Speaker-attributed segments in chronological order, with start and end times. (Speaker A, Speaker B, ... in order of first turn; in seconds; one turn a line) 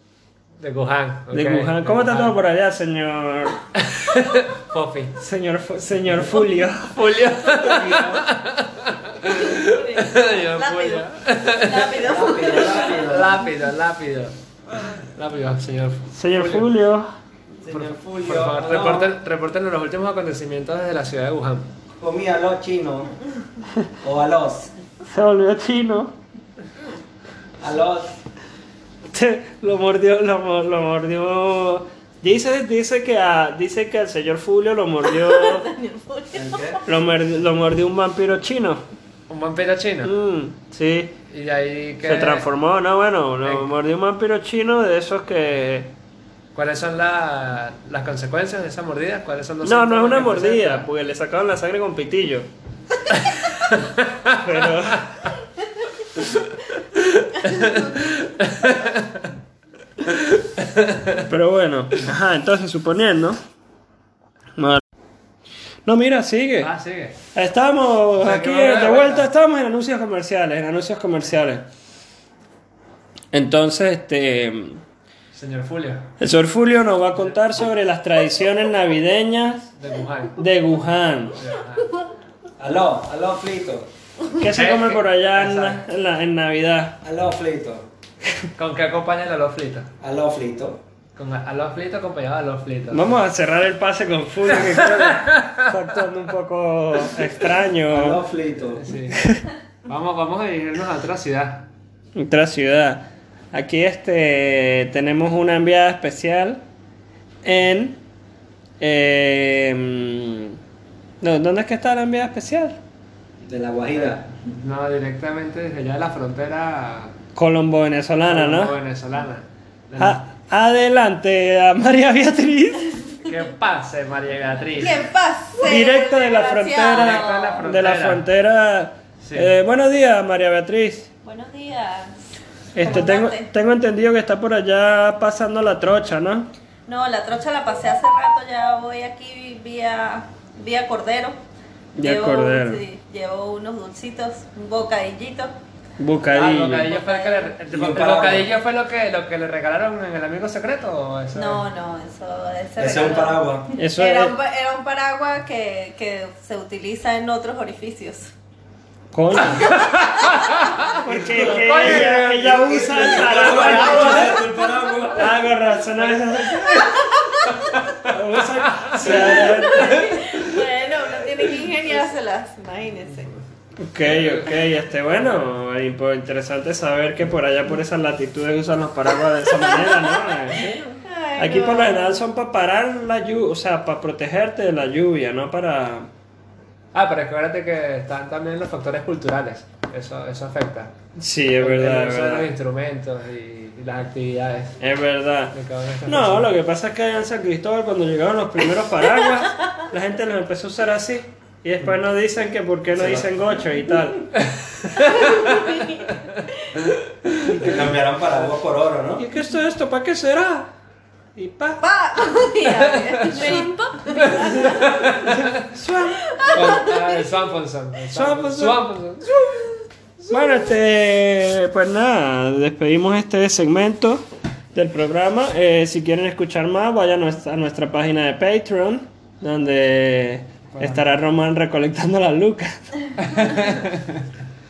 Speaker A: 0.6-2.4
Speaker B: 1.3-3.6
Speaker A: 3.8-5.2
Speaker B: 5.2-8.1
Speaker A: 7.0-16.7
Speaker C: 7.7-8.2
Speaker D: 9.2-13.2
Speaker C: 12.0-13.4
Speaker B: 16.1-17.1
Speaker C: 17.6-19.1
Speaker A: 17.7-21.7
Speaker C: 22.0-23.1
Speaker C: 24.0-24.7
Speaker B: 25.0-26.1
Speaker C: 27.6-28.1
Speaker B: 29.1-35.7
Speaker D: 35.0-36.9
Speaker C: 36.3-36.8
Speaker B: 36.9-38.8
Speaker A: 39.3-40.1
Speaker B: 40.0-41.1
Speaker A: 41.3-42.5
Speaker B: 42.0-45.9
Speaker A: 43.4-43.7
Speaker A: 46.5-50.9
Speaker B: 49.6-52.5
Speaker A: 53.7-54.7
Speaker B: 54.4-55.3
Speaker A: 57.4-59.2
Speaker A: 60.6-61.2
Speaker B: 61.3-63.4
Speaker B: 64.6-64.8
Speaker B: 65.9-66.7
Speaker A: 66.6-67.2
Speaker B: 67.3-71.6
Speaker A: 68.2-69.3
Speaker B: 73.3-74.8
Speaker A: 75.3-76.1
Speaker B: 76.2-79.7
Speaker A: 79.8-80.4
Speaker B: 80.4-81.4
Speaker A: 81.3-81.9
Speaker C: 82.6-83.9
Speaker B: 84.3-87.0
Speaker A: 84.5-85.8
Speaker C: 87.0-87.9
Speaker A: 88.6-89.9
Speaker C: 90.0-90.8
Speaker A: 91.2-93.2
Speaker B: 92.9-98.2
Speaker A: 94.4-95.7
Speaker C: 97.9-98.8
Speaker A: 98.7-99.2
Speaker B: 99.1-99.4
Speaker A: 99.8-101.7
Speaker B: 102.2-106.6
Speaker B: 107.4-108.0
Speaker B: 108.8-110.6
Speaker B: 111.2-112.8
Speaker C: 113.4-114.2
Speaker A: 113.9-117.2
Speaker B: 117.3-118.8
Speaker A: 118.2-120.2
Speaker B: 120.0-122.9
Speaker A: 123.2-125.0
Speaker D: 124.8-127.6
Speaker B: 125.6-131.1
Speaker A: 126.9-128.3
Speaker A: 129.2-129.5
Speaker D: 131.2-132.2
Speaker B: 132.8-136.5
Speaker D: 132.8-133.5
Speaker D: 136.9-141.4
Speaker B: 142.0-142.8
Speaker D: 142.0-145.5
Speaker B: 146.0-146.9
Speaker A: 146.3-151.6
Speaker D: 146.9-147.5
Speaker C: 147.7-148.5
Speaker D: 151.3-158.3
Speaker C: 152.8-153.8
Speaker B: 153.8-154.4
Speaker B: 159.1-159.9
Speaker D: 159.4-160.1
Speaker A: 160.2-162.5
Speaker B: 160.8-164.5
Speaker C: 161.1-165.4
Speaker A: 163.3-164.3
Speaker B: 165.1-167.1
Speaker D: 166.6-167.7
Speaker B: 168.0-170.5
Speaker A: 168.4-170.2
Speaker D: 169.4-173.3
Speaker B: 173.8-186.1
Speaker A: 174.0-174.6
Speaker D: 179.4-182.2
Speaker A: 186.9-190.9
Speaker B: 191.2-192.5
Speaker A: 191.5-194.8
Speaker B: 194.8-195.5
Speaker A: 195.5-196.5
Speaker B: 196.1-204.3
Speaker C: 203.0-203.3
Speaker A: 204.9-205.9
Speaker D: 205.1-206.1
Speaker B: 207.4-208.0
Speaker C: 207.6-209.2
Speaker B: 209.2-210.7
Speaker B: 211.3-211.8
Speaker D: 211.8-215.1
Speaker A: 213.3-215.5
Speaker B: 215.1-216.6
Speaker D: 216.1-217.2
Speaker A: 216.5-219.3
Speaker B: 218.1-218.8
Speaker B: 220.3-232.8
Speaker A: 230.7-231.1
Speaker A: 233.2-234.2